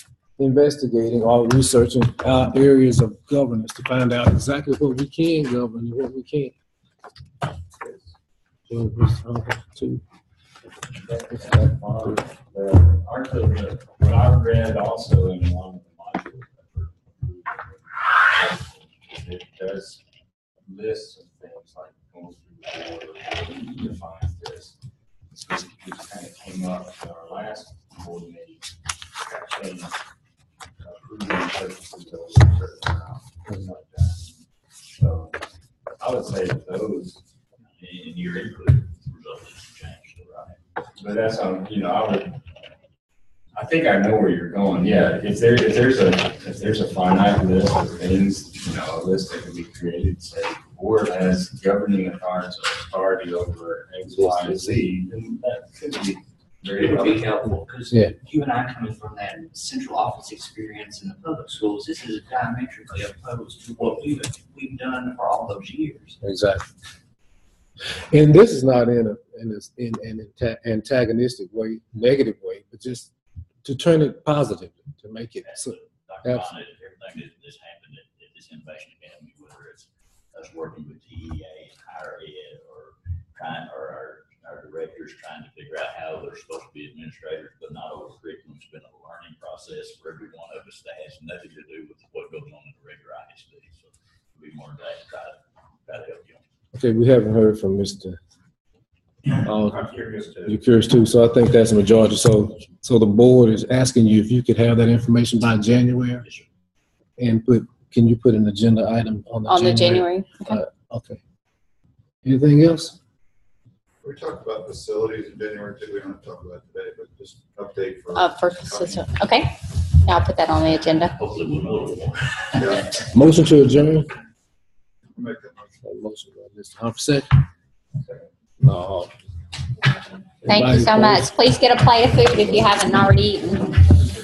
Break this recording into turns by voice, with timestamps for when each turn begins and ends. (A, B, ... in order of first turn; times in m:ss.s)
0:00.4-0:06.5 A
0:08.7-0:10.0 A
0:10.9-0:20.0 B
0:20.6-0:24.8 B
0:25.3-0:28.6 B
0:29.2-0:30.0 B
0:30.8-0:34.3 B
0:35.0-0:35.4 B
0:36.0-0:37.2 B
0:37.7-0:40.6 C
0:41.0-0:42.4 B
0:43.5-0:57.3 B
0:56.6-1:06.2 D
1:06.2-1:06.6 A
1:08.1-1:13.1 A
1:13.6-1:16.5 A
1:15.4-1:36.4 C
1:36.7-1:38.2 A
1:39.4-1:39.9 A
1:39.6-1:40.6 D
1:40.4-1:46.2 A
1:47.2-1:51.2 A
1:49.5-1:50.6 E
1:52.2-1:53.0 A
1:54.0-1:59.1 F
1:58.2-2:01.2 E
2:01.2-2:03.0 C
2:02.6-2:02.9 F
2:03.1-2:04.1 A
2:05.1-2:05.8 F
2:05.8-2:07.3 A
2:08.6-2:09.1 A
2:10.4-2:11.3 A
2:10.5-2:13.8 E